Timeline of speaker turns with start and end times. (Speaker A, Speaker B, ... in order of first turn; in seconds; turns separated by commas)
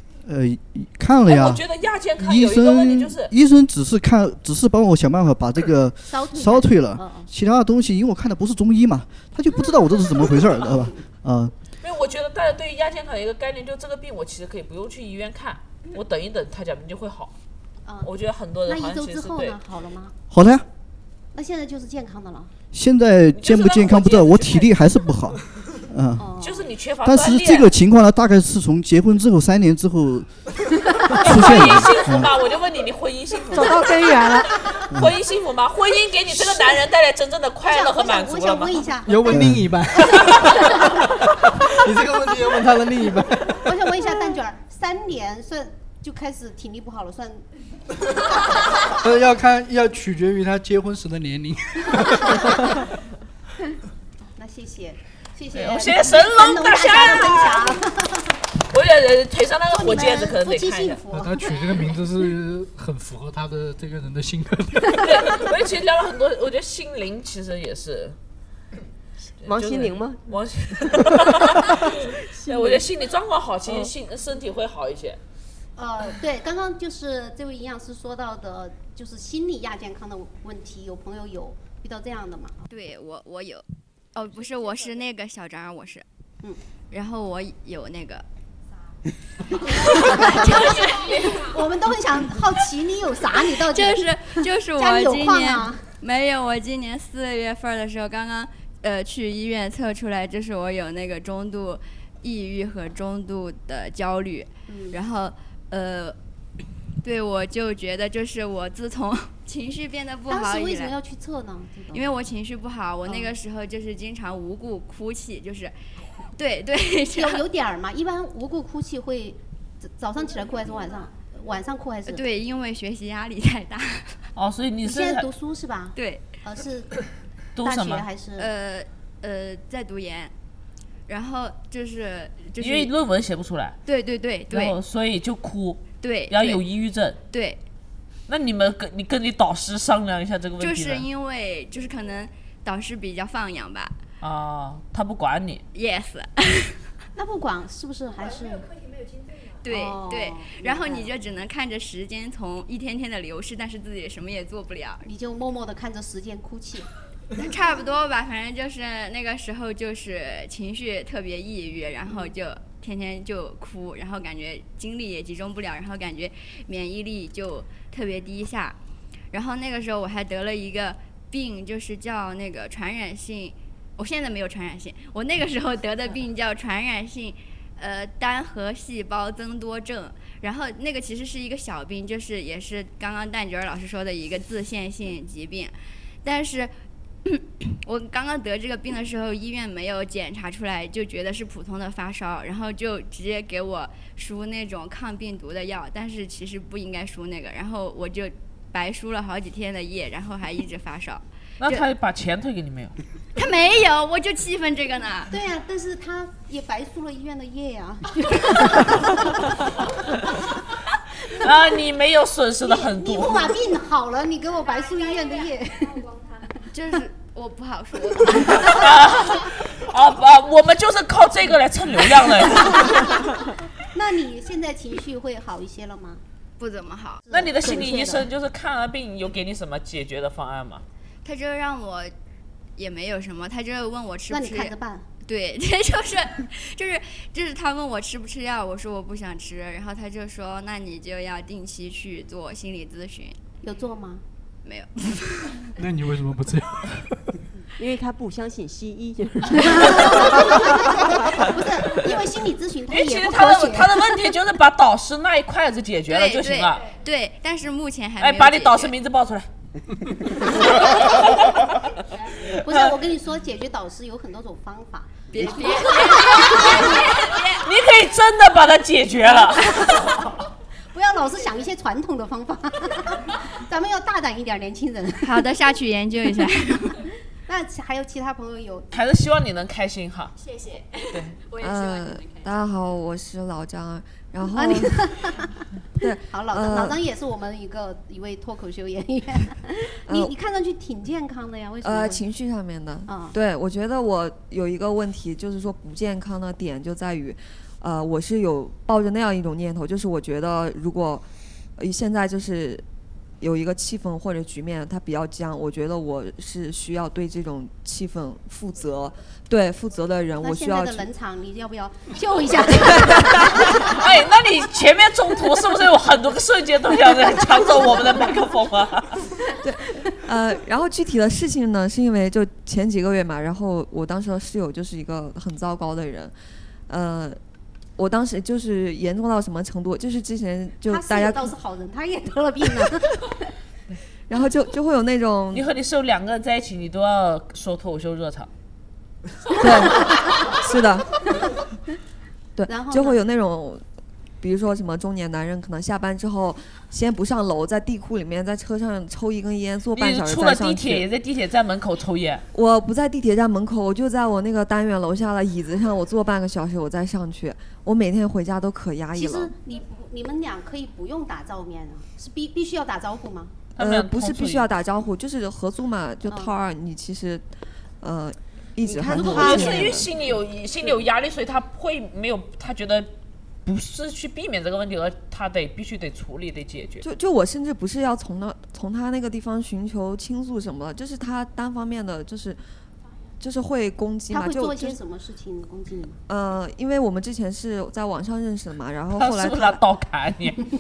Speaker A: 0.3-1.6, Speaker B: 1.3-3.3, Speaker A: 2.2-11.5, Speaker C: 6.1-7.3, Speaker B: 11.8-17.4, Speaker B: 18.0-19.6, Speaker C: 18.7-20.1, Speaker A: 20.3-20.6, Speaker C: 21.4-22.5, Speaker A: 22.7-26.3, Speaker B: 23.4-24.8, Speaker C: 26.2-26.7, Speaker B: 26.4-27.7, Speaker A: 27.0-30.3, Speaker A: 31.1-32.3, Speaker B: 31.2-38.9, Speaker D: 33.5-34.6, Speaker C: 37.7-39.4, Speaker E: 39.1-43.7, Speaker A: 39.3-39.7, Speaker C: 40.1-41.1, Speaker B: 40.2-40.5, Speaker C: 43.6-47.5, Speaker E: 49.0-52.9, Speaker C: 54.4-58.3, Speaker B: 55.5-57.8, Speaker B: 58.7-61.0, Speaker C: 59.7-61.6, Speaker E: 61.1-65.4, Speaker B: 65.0-68.2, Speaker B: 69.4-75.2, Speaker D: 69.4-70.2, Speaker D: 70.8-71.9, Speaker C: 75.8-82.6, Speaker F: 82.7-83.6, Speaker F: 84.2-86.0, Speaker F: 86.9-88.2, Speaker F: 89.7-91.4, Speaker C: 89.8-90.6, Speaker B: 90.7-91.4, Speaker C: 91.2-95.9, Speaker F: 93.6-106.2, Speaker C: 104.7-105.0, Speaker F: 107.0-110.9, Speaker C: 110.3-112.0, Speaker F: 111.9-115.8, Speaker F: 116.4-117.4, Speaker C: 117.1-122.3, Speaker F: 122.1-124.3, Speaker B: 124.4-125.3, Speaker C: 124.8-126.9, Speaker F: 126.0-126.3, Speaker B: 127.6-128.1, Speaker C: 127.6-128.5, Speaker F: 128.4-130.3, Speaker F: 131.1-132.9, Speaker B: 132.6-133.8, Speaker F: 133.9-134.8, Speaker B: 134.5-137.2, Speaker F: 136.0-136.6, Speaker F: 137.3-137.6, Speaker B: 138.3-141.1, Speaker F: 140.6-144.0, Speaker B: 144.2-145.6, Speaker F: 145.7-146.8, Speaker C: 147.2-148.7, Speaker F: 149.6-155.1, Speaker C: 149.7-151.1, Speaker C: 155.0-156.9, Speaker F: 157.3-168.8, Speaker F: 169.3-186.7, Speaker F: 187.3-201.8, Speaker B: 201.6-202.9, Speaker F: 203.4-205.3, Speaker C: 205.3-209.5, Speaker B: 211.3-213.6, Speaker C: 212.6-216.1, Speaker F: 216.7-218.8, Speaker B: 218.7-223.1, Speaker C: 223.9-226.2, Speaker F: 226.6-227.3, Speaker C: 227.3-228.2, Speaker B: 227.3-230.8, Speaker F: 231.2-232.1, Speaker F: 232.8-234.7, Speaker C: 234.3-235.1, Speaker F: 235.3-243.4, Speaker C: 243.6-244.2, Speaker F: 244.7-245.6, Speaker E: 245.8-247.2, Speaker D: 247.8-251.0, Speaker C: 249.6-254.1, Speaker B: 252.9-256.8, Speaker F: 256.1-258.9, Speaker B: 258.2-259.5, Speaker B: 260.3-261.7, Speaker C: 260.8-261.4, Speaker B: 262.5-262.8, Speaker C: 262.5-267.0, Speaker F: 265.3-267.7, Speaker B: 267.6-270.3, Speaker C: 270.9-275.4, Speaker F: 275.2-277.0, Speaker C: 277.5-278.9, Speaker B: 278.9-280.4, Speaker B: 281.1-281.4, Speaker G: 281.5-285.1, Speaker C: 284.5-285.5, Speaker G: 286.0-287.0, Speaker C: 286.2-292.2, Speaker G: 290.1-290.3, Speaker G: 291.8-301.2, Speaker C: 293.1-293.4, Speaker G: 301.8-302.8, Speaker G: 303.4-311.1, Speaker C: 310.4-313.9, Speaker G: 313.0-313.3, Speaker B: 313.7-319.2, Speaker G: 319.6-326.3, Speaker G: 326.9-327.4, Speaker G: 328.0-331.5, Speaker C: 330.9-333.4, Speaker G: 334.3-335.7, Speaker B: 335.5-338.5, Speaker G: 339.6-341.1, Speaker G: 342.6-343.8, Speaker C: 342.7-343.2, Speaker G: 344.4-351.1, Speaker B: 349.9-352.4, Speaker G: 352.5-359.5, Speaker C: 359.2-363.5, Speaker B: 363.8-364.7, Speaker G: 363.8-367.5, Speaker C: 366.3-366.5, Speaker G: 368.0-370.1, Speaker B: 369.1-373.1, Speaker C: 369.1-369.9, Speaker B: 373.6-377.1, Speaker G: 377.0-382.6, Speaker G: 383.4-385.0, Speaker C: 384.3-386.2, Speaker G: 386.3-389.8, Speaker B: 389.1-390.6